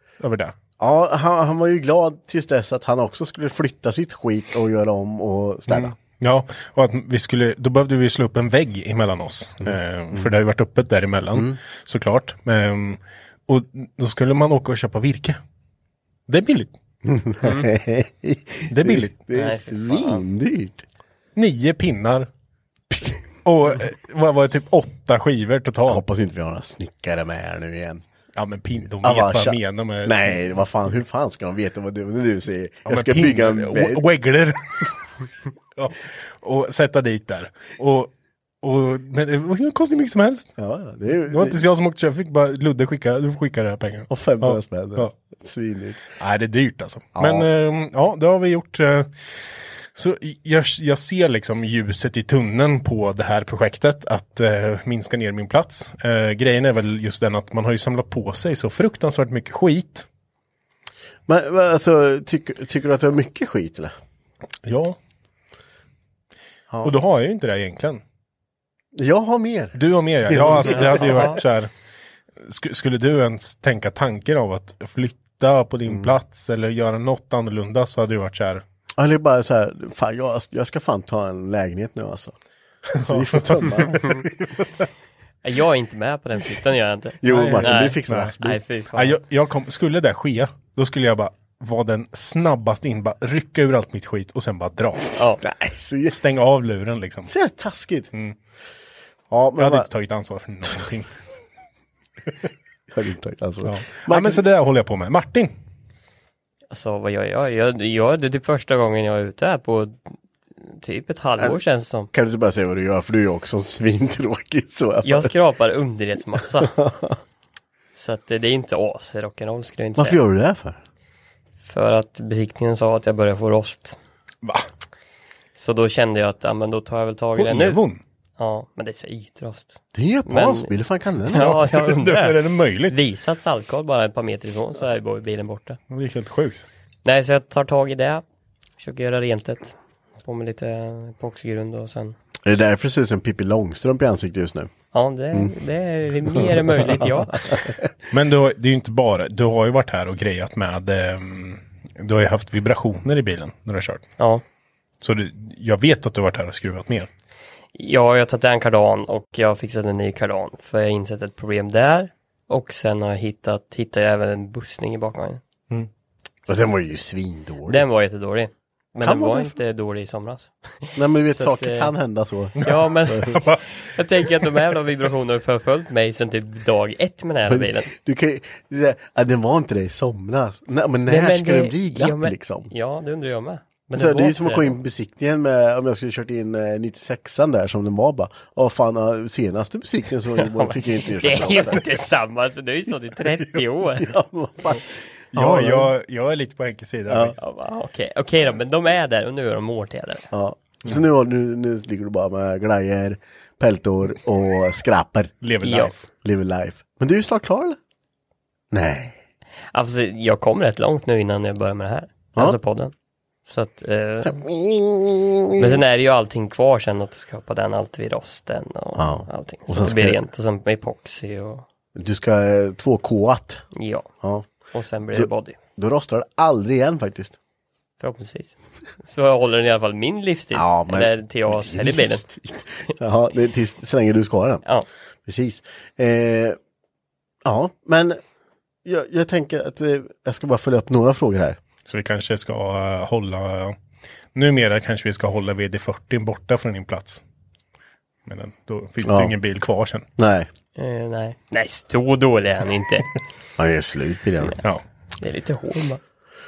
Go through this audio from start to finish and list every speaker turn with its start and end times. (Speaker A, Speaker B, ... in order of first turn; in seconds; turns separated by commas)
Speaker A: 0.2-0.5, Speaker B: 0.8-5.9, Speaker A: 5.7-15.4, Speaker B: 9.7-10.3, Speaker B: 11.3-11.6, Speaker A: 16.3-16.7, Speaker B: 17.0-20.8, Speaker A: 18.7-19.2, Speaker C: 19.3-20.2, Speaker A: 21.4-22.3, Speaker A: 23.4-26.0, Speaker B: 25.9-28.0, Speaker A: 28.4-30.6, Speaker B: 29.0-34.0, Speaker A: 32.9-35.0, Speaker A: 35.8-38.1, Speaker A: 38.6-40.5, Speaker B: 40.6-41.6, Speaker A: 41.2-45.1, Speaker B: 44.1-46.0, Speaker A: 46.2-49.4, Speaker B: 47.1-47.5, Speaker A: 49.9-60.0, Speaker B: 61.3-63.9, Speaker A: 64.6-65.0, Speaker A: 66.8-68.0, Speaker B: 68.9-71.4, Speaker A: 69.7-71.7, Speaker C: 70.9-71.4, Speaker A: 72.4-78.6, Speaker B: 75.9-76.1, Speaker B: 79.0-82.3, Speaker A: 82.9-84.3, Speaker B: 83.0-84.2, Speaker C: 85.4-89.2, Speaker B: 87.2-88.6, Speaker A: 87.2-88.4, Speaker A: 88.9-95.2, Speaker B: 95.4-96.2, Speaker A: 96.1-97.3, Speaker B: 97.3-98.1, Speaker B: 99.3-99.9, Speaker A: 99.6-101.1, Speaker B: 102.9-104.4, Speaker A: 103.6-105.5, Speaker C: 106.7-110.1, Speaker C: 110.6-112.1, Speaker B: 112.1-115.3, Speaker C: 115.0-116.8, Speaker B: 116.6-117.2, Speaker C: 117.9-120.2, Speaker B: 120.0-120.8, Speaker C: 121.6-124.0, Speaker C: 125.5-127.8, Speaker A: 127.4-128.0, Speaker C: 128.4-129.7, Speaker B: 129.9-131.6, Speaker C: 130.3-130.7, Speaker C: 131.3-132.3, Speaker A: 131.4-132.9, Speaker C: 132.9-135.8, Speaker A: 135.9-136.6, Speaker C: 137.0-138.2, Speaker C: 138.8-142.2, Speaker B: 142.4-144.7, Speaker C: 144.9-147.5, Speaker B: 146.3-147.8, Speaker A: 148.1-154.1, Speaker A: 155.0-157.1, Speaker C: 157.7-165.4, Speaker B: 166.5-167.8, Speaker C: 167.7-171.9, Speaker B: 169.0-169.6, Speaker B: 170.9-173.4, Speaker C: 172.6-177.9, Speaker A: 173.3-173.6, Speaker B: 177.4-182.7, Speaker C: 181.1-184.8, Speaker B: 183.9-191.8, Speaker C: 190.4-194.1, Speaker B: 193.9-195.9, Speaker A: 195.3-197.4, Speaker B: 197.1-197.4, Speaker C: 197.4-200.3, Speaker B: 200.3-205.3, Speaker A: 205.4-206.0, Speaker C: 205.6-205.9, Speaker B: 206.2-207.8, Speaker B: 208.7-209.2, Speaker C: 209.7-212.9, Speaker C: 213.4-214.4, Speaker B: 214.2-215.8, Speaker C: 215.6-221.6, Speaker B: 218.9-220.2, Speaker B: 221.9-223.6, Speaker C: 223.7-224.1, Speaker B: 224.2-224.5, Speaker C: 224.7-225.6, Speaker B: 225.1-227.4, Speaker C: 228.0-232.2, Speaker B: 230.5-234.6, Speaker B: 235.2-236.6, Speaker B: 237.4-238.2, Speaker B: 238.8-241.6, Speaker A: 241.8-243.8, Speaker A: 244.3-247.2, Speaker A: 248.2-250.1, Speaker B: 249.0-249.3, Speaker B: 250.2-250.5, Speaker C: 250.8-253.1, Speaker B: 253.6-254.6, Speaker C: 255.2-256.0